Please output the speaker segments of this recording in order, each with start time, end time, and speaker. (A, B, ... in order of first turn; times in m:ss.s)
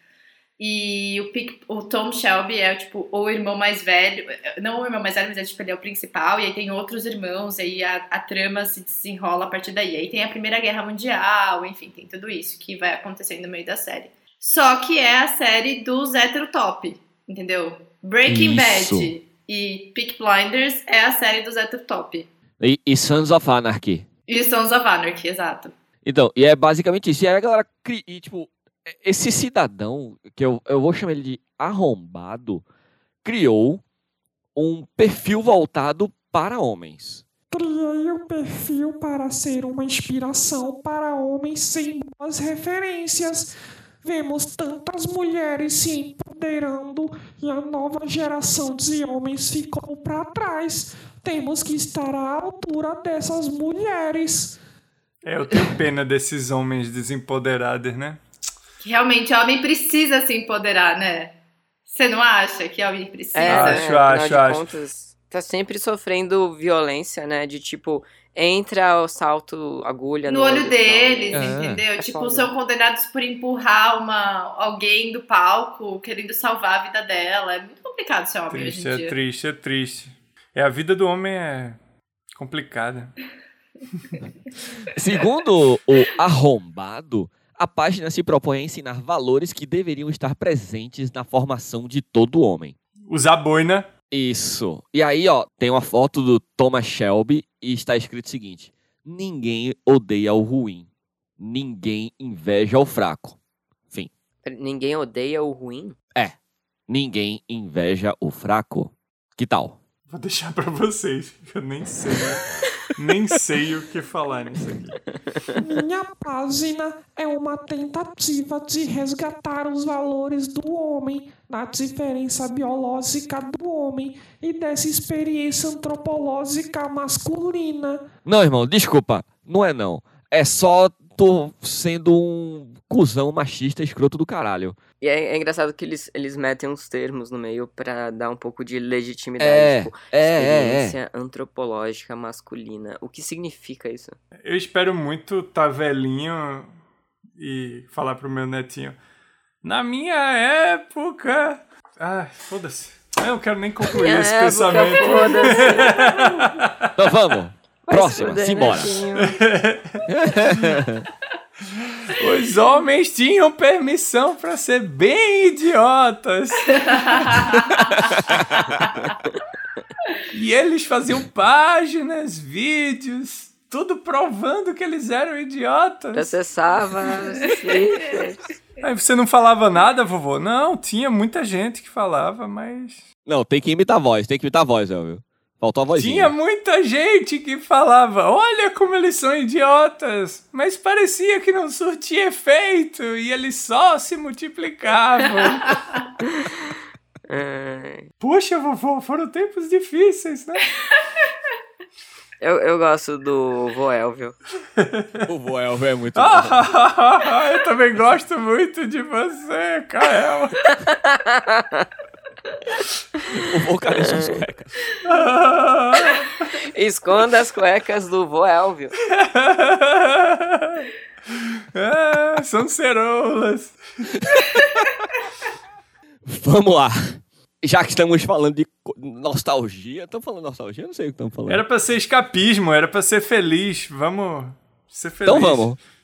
0:00.6-0:22.3 A
0:18.2-0:19.1 B
0:22.6-0:24.1 B
0:24.3-0:25.7 A
0:26.0-0:32.6 B
0:33.2-0:33.8 B
0:34.5-0:37.2 B
0:37.5-0:54.6 C
0:55.2-0:58.2 D
0:58.8-1:03.8 A
1:03.3-1:12.5 E
1:03.4-1:04.7 D
1:10.3-1:19.1 A
1:11.3-1:11.8 B
1:18.5-1:21.8 D
1:22.3-1:23.1 D
1:24.9-1:32.8 B
1:33.1-1:33.9 D
1:34.1-1:40.9 B
1:41.4-1:43.4 B
1:44.4-1:46.0 E
1:46.9-1:49.8 B
1:50.1-1:55.0 D
1:55.5-2:08.0 C
2:08.2-2:14.8 B
2:15.0-2:24.2 E
2:19.4-2:21.0 B
2:24.4-2:26.7 D
2:27.4-2:29.0 D
2:29.6-2:36.9 D
2:33.8-2:36.2 E
2:37.0-2:39.0 B
2:37.8-2:39.4 E
2:39.2-2:40.8 D
2:40.1-2:41.1 B
2:42.0-2:47.9 D
2:46.7-2:47.9 A
2:48.1-2:48.8 B
2:50.3-2:56.3 D
2:56.1-2:58.4 E
2:57.4-2:58.2 A
2:58.8-3:03.0 D
3:03.2-3:06.3 B
3:05.9-3:15.8 D
3:16.2-3:16.7 E
3:17.3-3:18.1 E
3:18.2-3:20.6 D
3:22.4-3:24.4 E
3:24.8-3:25.2 D
3:25.3-3:26.6 B
3:26.2-3:30.6 D
3:30.8-3:31.9 E
3:33.3-3:34.7 B
3:33.9-3:34.4 E
3:35.0-3:36.3 D
3:36.7-3:38.9 E
3:39.1-3:40.9 D
3:41.7-3:43.8 D
3:46.2-3:51.6 B
3:51.4-3:55.7 D
3:55.2-3:55.8 B